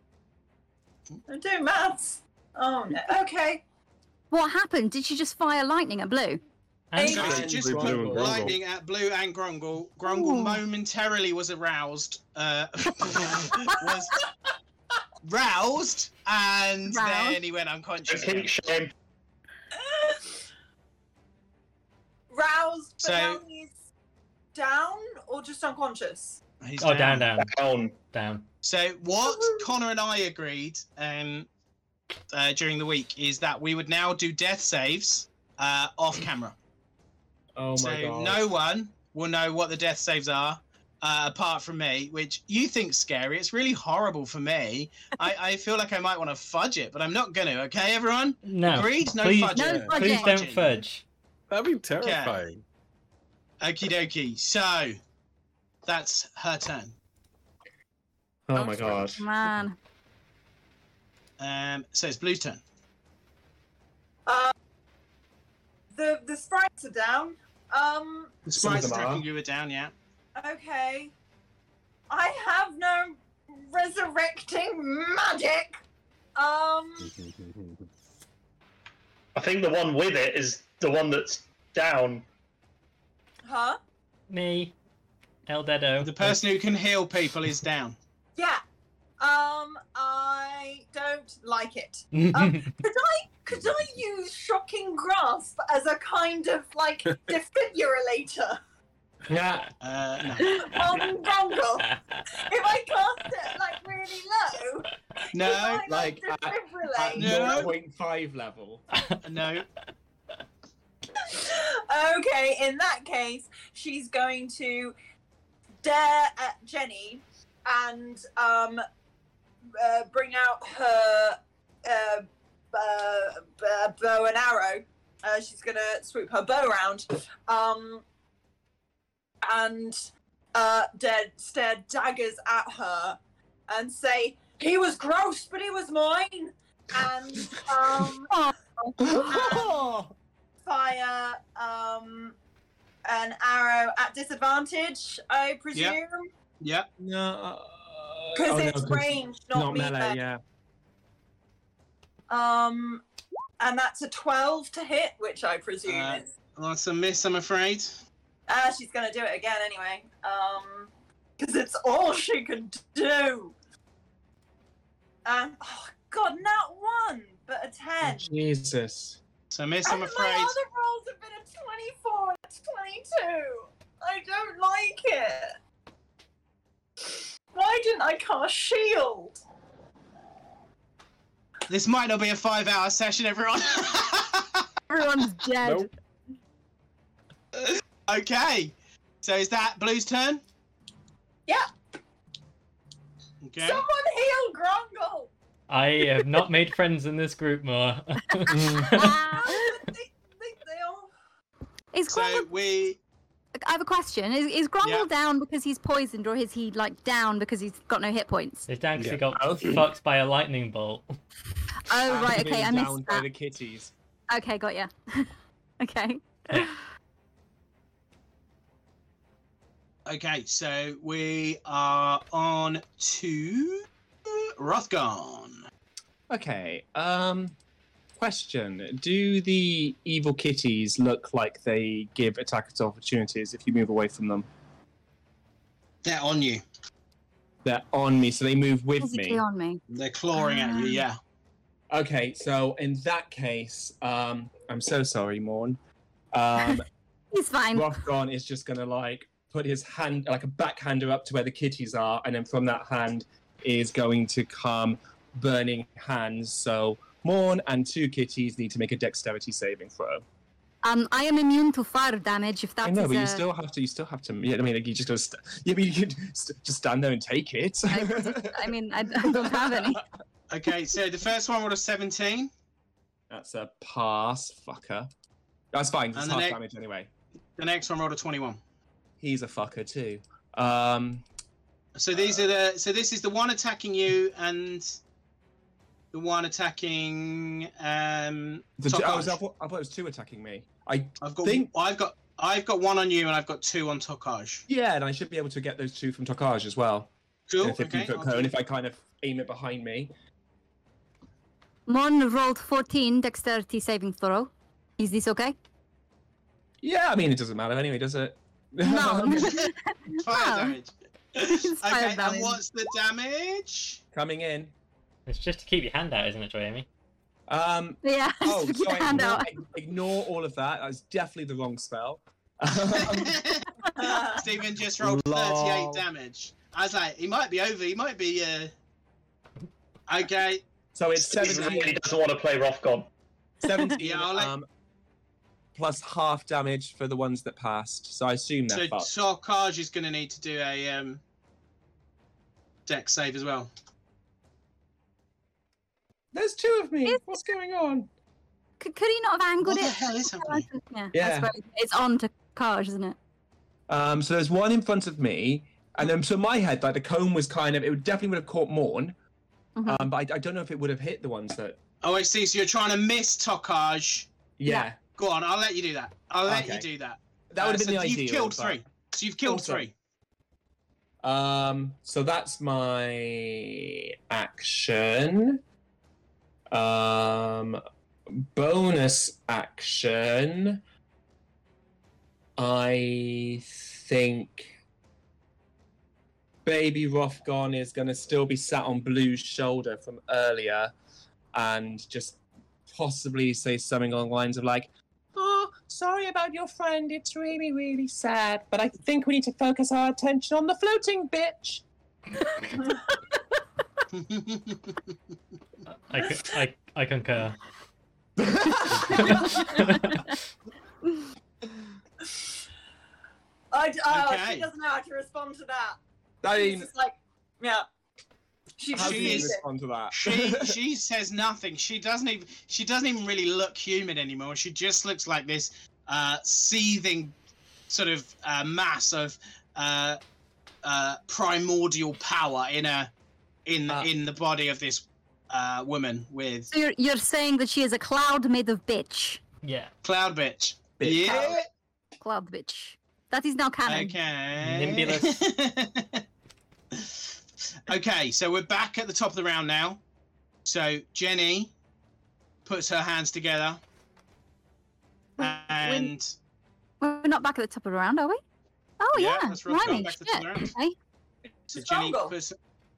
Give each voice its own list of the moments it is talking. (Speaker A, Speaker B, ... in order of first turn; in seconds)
Speaker A: 1.3-3.6, 7.0-7.3, 19.8-20.4, 22.3-23.7, 24.5-26.4, 64.3-64.5, 66.0-68.3, 70.4-71.1, 72.1-75.8, 76.4-77.1, 83.5-83.8, 89.2-98.6, 100.4-107.7, 111.2-115.0, 115.8-118.8, 119.8-128.0, 129.4-133.2, 133.7-138.3, 139.3-139.8, 140.7-142.4, 143.1-146.3, 148.3-150.2, 152.3-153.0, 153.6-156.3, 158.5-163.6, 165.2-168.3, 169.8-175.6, 177.5-179.4, 193.6-195.3, 198.9-201.1, 324.0-324.4, 413.7-416.0, 416.5-417.9, 418.8-419.6, 461.7-462.4
Speaker B: 4.3-6.4, 10.1-10.6, 16.9-17.4, 49.5-50.4, 58.6-59.8, 184.9-185.9, 198.9-199.6, 201.9-202.5, 203.6-208.7, 211.9-213.2, 214.3-216.8, 239.0-239.8, 240.3-241.1, 247.3-247.9, 260.8-263.4, 267.9-270.0, 301.9-305.6, 308.8-310.8, 311.5-312.6, 318.0-319.5, 347.1-347.3, 348.8-353.2, 359.8-360.1, 436.7-439.4, 442.2-444.2, 455.4-456.1, 457.0-458.4, 459.0-460.9
Speaker C: 6.9-7.5, 26.8-27.5, 28.1-28.5, 48.5-51.0, 84.3-84.7, 85.5-86.4, 92.1-92.7, 195.7-199.1, 208.7-211.1, 315.3-316.9, 406.1-407.6, 409.1-410.3, 439.6-439.9, 444.6-445.4
Speaker D: 7.0-14.2, 15.2-18.5, 23.0-23.4, 26.6-27.3, 28.6-31.5, 32.3-36.6, 37.8-50.8, 52.0-52.4, 53.6-55.0, 55.9-57.0, 61.4-62.6, 68.5-69.9, 86.0-88.0, 99.8-100.6, 105.3-105.8, 107.2-107.7, 109.2-109.7, 146.6-146.9, 155.9-158.0, 169.5-170.6, 181.7-184.7, 187.6-190.4, 193.4-193.8, 202.1-203.0, 204.8-205.1, 220.1-225.6, 236.0-236.6, 239.9-241.2, 270.5-272.5, 276.1-276.6, 277.6-278.6, 281.9-285.0, 286.1-289.4, 291.2-294.6, 297.5-298.6, 309.4-314.0, 322.9-323.7, 324.3-328.7, 330.1-330.6, 334.0-334.5, 338.7-341.2, 342.9-343.7, 349.6-350.7, 362.0-364.3, 365.1-369.9, 404.1-405.1, 414.1-414.7, 418.9-419.6, 420.1-427.4, 427.9-430.2, 430.8-433.1, 433.7-436.7, 440.0-441.7, 443.9-446.2, 446.9-447.3, 447.9-450.0, 450.6-451.7, 452.6-453.8, 455.4-456.4, 459.1-460.7, 461.7-462.6
Speaker E: 7.1-8.6, 37.6-38.5, 58.5-59.2, 68.5-69.2, 99.3-99.7, 105.8-108.8, 139.0-140.1, 147.0-150.4, 168.0-169.2, 198.5-198.9, 209.3-209.8, 212.1-213.9, 226.3-227.6, 228.2-234.5, 237.6-239.4, 241.9-245.8, 246.3-246.8, 247.7-260.2, 262.8-270.0, 273.3-275.1, 275.7-277.1, 279.2-281.2, 288.8-291.7, 294.7-297.1, 297.6-300.1, 306.8-309.6, 314.1-314.7, 317.5-323.4, 325.0-326.1, 330.9-332.0, 333.6-334.7, 335.8-339.1, 346.3-348.1, 351.1-351.5, 353.9-359.1, 359.9-361.8, 364.6-365.0, 366.5-366.9, 367.5-368.8, 369.4-369.9, 371.2-375.6, 376.7-380.8, 382.6-384.7, 386.6-390.9, 391.5-401.8, 408.4-409.5, 416.4-416.9, 418.9-420.8, 441.0-441.6
Speaker F: 7.4-8.6, 51.5-52.6, 58.7-59.1, 77.1-77.8
Speaker G: 18.1-18.9, 27.4-27.9, 79.3-82.2, 331.2-333.1